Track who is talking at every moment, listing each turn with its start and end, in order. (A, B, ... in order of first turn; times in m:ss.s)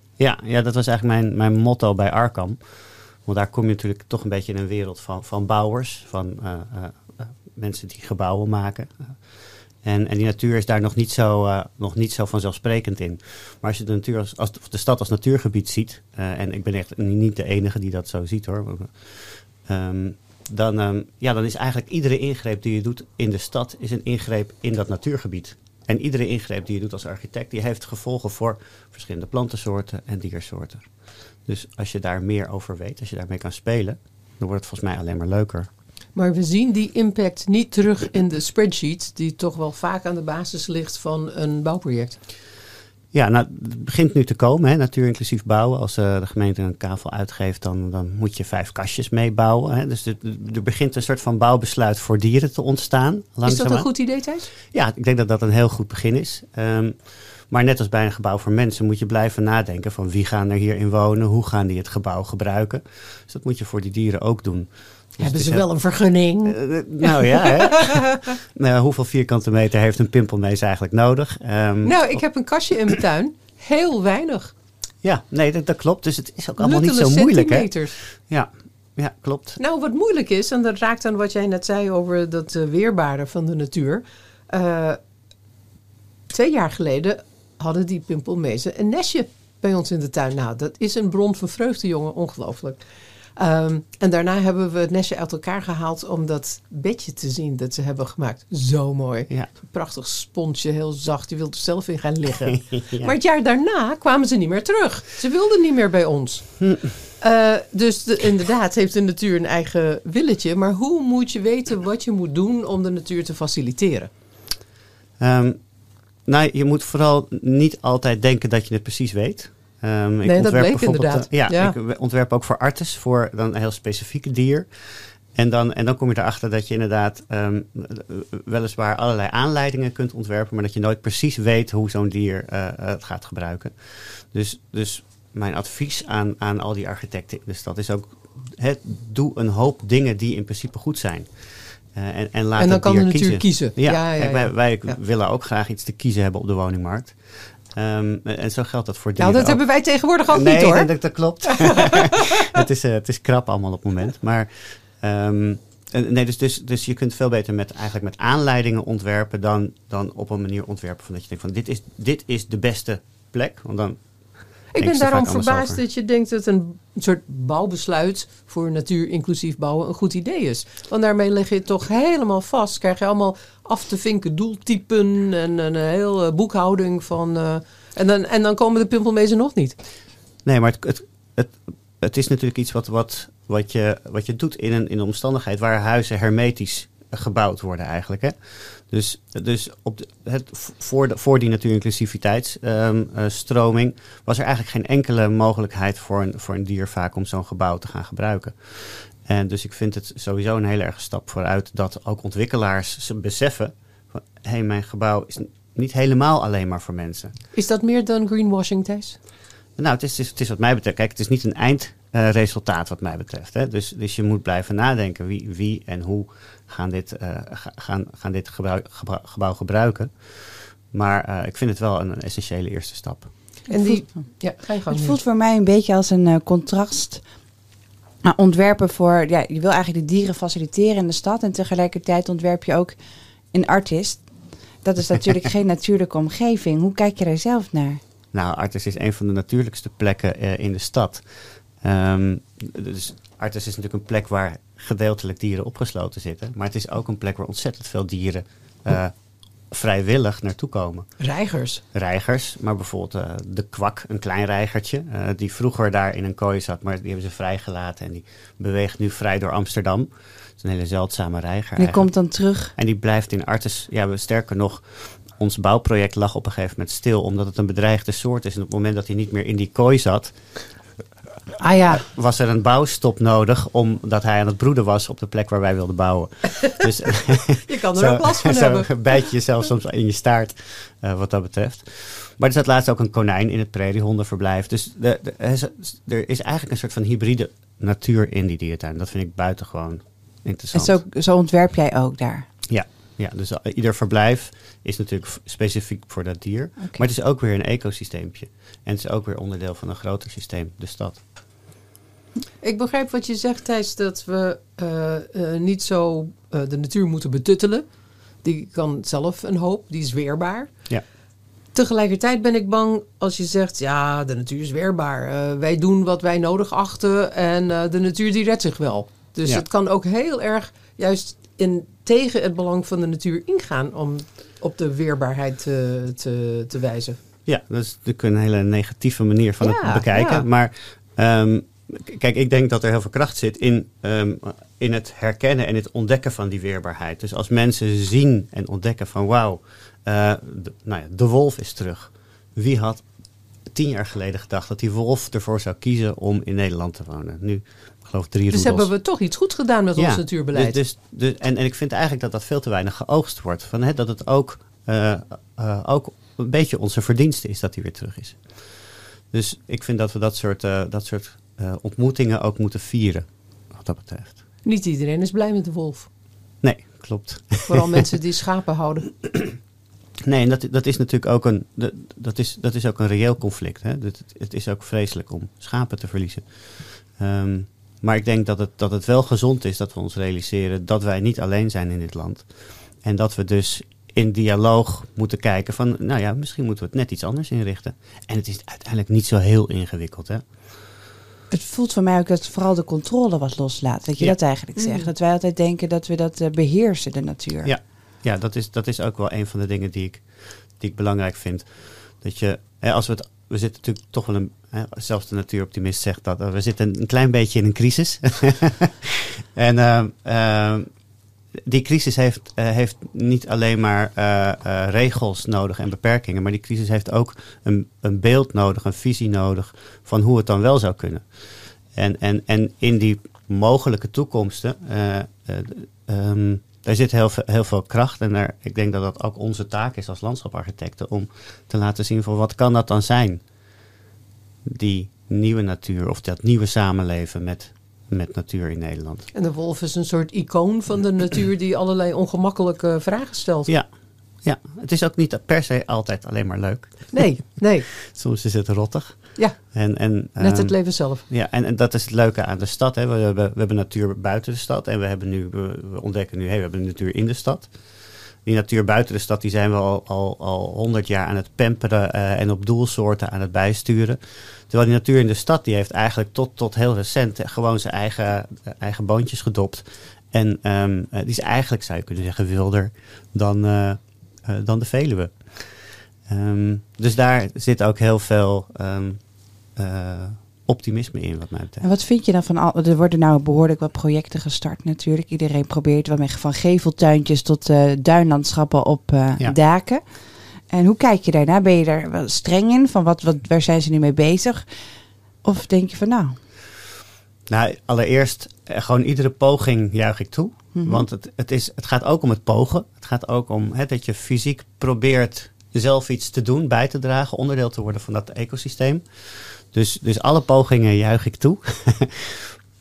0:00.2-0:35.7 A
0:36.1-0:42.2 B
0:43.1-1:05.6 A
0:53.4-0:54.5 B
1:05.2-1:08.2 B
1:06.4-1:12.2 A
1:11.8-1:14.5 B
1:15.0-1:19.6 A
1:16.6-1:18.0 B
1:19.6-1:25.0 B
1:26.3-1:32.8 B
1:33.4-1:54.1 B
1:42.5-1:43.1 A
1:46.6-1:47.0 A
1:55.2-2:45.8 A
2:00.2-2:01.8 B
2:22.6-2:25.0 B
2:29.2-2:31.9 B
2:44.7-2:59.8 B
3:00.4-3:27.4 A
3:27.5-3:29.2 B
3:29.8-3:43.3 A
3:43.7-3:45.2 B
3:43.7-3:47.3 C
3:48.2-3:53.0 C
3:53.5-3:58.0 C
3:58.3-4:11.2 A
4:11.2-4:11.8 B
4:11.9-4:30.6 A
4:21.8-4:22.7 C
4:31.6-4:32.0 B
4:31.9-4:51.0 A
4:37.6-4:39.1 B
4:50.7-4:52.4 C
4:52.7-5:01.2 A
5:02.6-5:11.0 B
5:11.7-5:27.2 B
5:27.4-5:49.0 A
5:29.6-5:30.4 B
5:48.5-5:50.8 B
5:50.0-6:04.4 A
6:04.6-6:06.1 B
6:06.6-6:08.0 A
6:07.6-6:09.1 B
6:09.2-6:09.6 A
6:10.2-6:30.7 A
6:31.5-6:37.7 C
6:34.8-6:35.1 B
6:37.6-6:51.0 A
6:51.6-7:13.5 A
7:14.6-7:19.3 A
7:19.3-7:23.7 B
7:23.7-8:01.8 A
7:27.1-7:27.9 B
7:29.4-7:31.2 B
8:01.8-8:14.7 C
8:15.4-8:16.4 C
8:17.5-8:32.5 A
8:20.7-8:21.0 C